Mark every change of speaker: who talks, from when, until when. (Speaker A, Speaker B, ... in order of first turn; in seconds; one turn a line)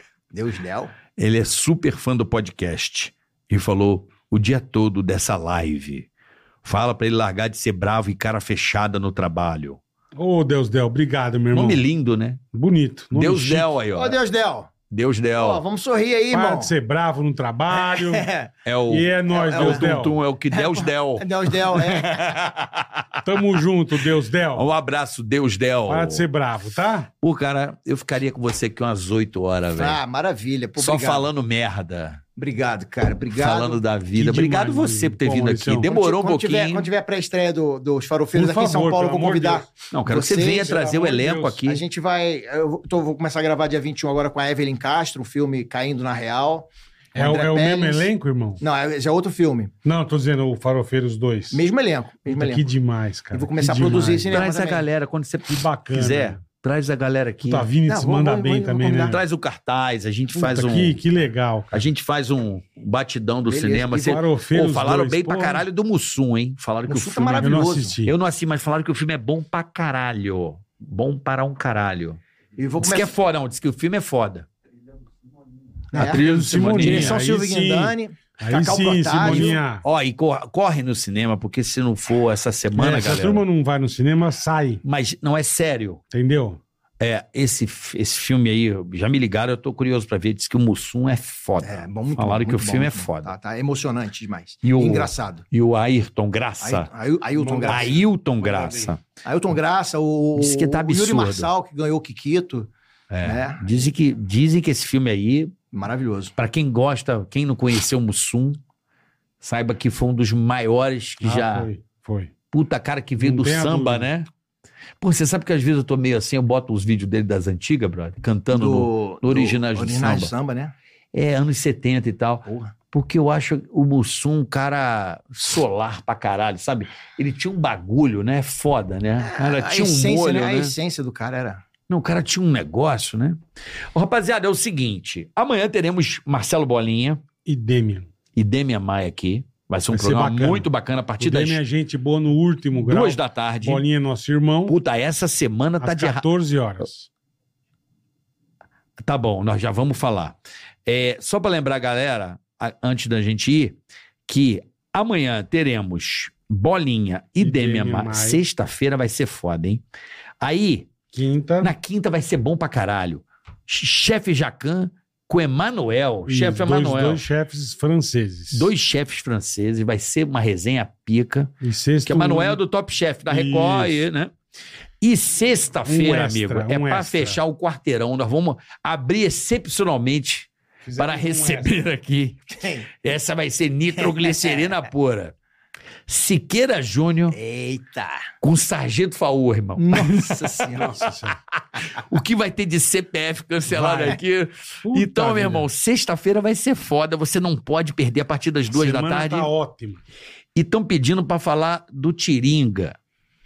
Speaker A: 0.3-0.9
Speaker B: 1.2-6.1
Speaker B: 6.6-9.8
Speaker C: 10.2-11.8
Speaker B: 11.5-12.4
Speaker C: 12.5-13.7
Speaker B: 13.1-14.2
Speaker A: 13.9-14.7
Speaker B: 14.9-15.6
Speaker A: 15.4-16.7
Speaker C: 16.3-18.3
Speaker A: 17.7-18.5
Speaker B: 18.7-23.2
Speaker C: 18.9-20.2
Speaker A: 19.3-19.8
Speaker A: 20.5-22.3
Speaker C: 23.2-24.6
Speaker B: 24.6-26.2
Speaker C: 25.9-27.1
Speaker B: 27.2-30.0
Speaker A: 29.8-31.3
Speaker B: 30.8-32.2
Speaker A: 32.4-33.8
Speaker B: 33.4-36.9
Speaker C: 34.1-35.9
Speaker A: 35.8-40.8
Speaker C: 38.3-39.7
Speaker B: 39.9-41.8
Speaker C: 40.6-41.6
Speaker A: 41.6-48.1
Speaker C: 47.1-48.6
Speaker A: 48.6-49.7
Speaker C: 49.8-51.6
Speaker A: 51.5-52.7
Speaker C: 52.3-54.4
Speaker A: 53.3-54.8
Speaker B: 54.3-57.7
Speaker C: 55.5-56.4
Speaker C: 57.4-59.2
Speaker A: 57.9-59.2
Speaker B: 59.1-61.0
Speaker C: 60.3-61.9
Speaker B: 61.7-72.2
Speaker A: 63.5-64.2
Speaker C: 63.9-65.7
Speaker A: 66.9-68.0
Speaker C: 67.4-68.2
Speaker A: 72.6-73.1
Speaker B: 72.8-74.5
Speaker A: 75.9-76.2
Speaker B: 75.9-77.2
Speaker C: 75.9-79.8
Speaker A: 76.8-79.6
Speaker B: 79.2-83.4
Speaker C: 82.7-84.8
Speaker B: 84.8-86.0
Speaker C: 86.1-86.6
Speaker B: 87.0-93.3
Speaker A: 91.6-95.4
Speaker B: 94.6-96.9
Speaker A: 96.6-98.0
Speaker C: 97.3-98.9
Speaker B: 97.7-99.0
Speaker A: 99.2-102.7
Speaker B: 100.3-101.5
Speaker B: 103.1-105.5
Speaker A: 103.2-103.8
Speaker A: 105.7-106.3
Speaker B: 106.4-108.6
Speaker B: 109.4-111.7
Speaker C: 111.2-112.3
Speaker B: 112.5-114.3
Speaker C: 113.2-114.1
Speaker B: 115.0-120.3
Speaker A: 118.5-120.7
Speaker B: 121.1-130.7
Speaker A: 122.5-122.7
Speaker A: 129.2-131.6
Speaker B: 131.9-133.4
Speaker B: 133.9-137.2
Speaker C: 137.4-138.1
Speaker B: 138.3-141.6
Speaker C: 139.9-140.7
Speaker C: 141.2-144.8
Speaker B: 142.7-143.8
Speaker B: 144.7-146.2
Speaker C: 145.8-147.1
Speaker B: 149.0-159.8
Speaker C: 157.4-158.4
Speaker B: 160.4-160.9
Speaker C: 161.1-161.8
Speaker B: 161.6-167.2
Speaker C: 166.3-168.7
Speaker B: 168.5-171.5
Speaker C: 171.6-172.6
Speaker B: 172.1-174.3
Speaker C: 173.3-174.1
Speaker B: 175.0-185.3
Speaker C: 175.8-177.4
Speaker C: 180.8-181.8
Speaker A: 182.6-182.9
Speaker A: 184.0-184.7
Speaker B: 186.1-187.3
Speaker A: 187.3-188.3
Speaker B: 188.4-199.5
Speaker A: 189.8-191.0
Speaker C: 190.7-191.4
Speaker C: 193.7-194.2
Speaker C: 194.8-195.7
Speaker C: 198.7-200.0
Speaker B: 200.6-202.9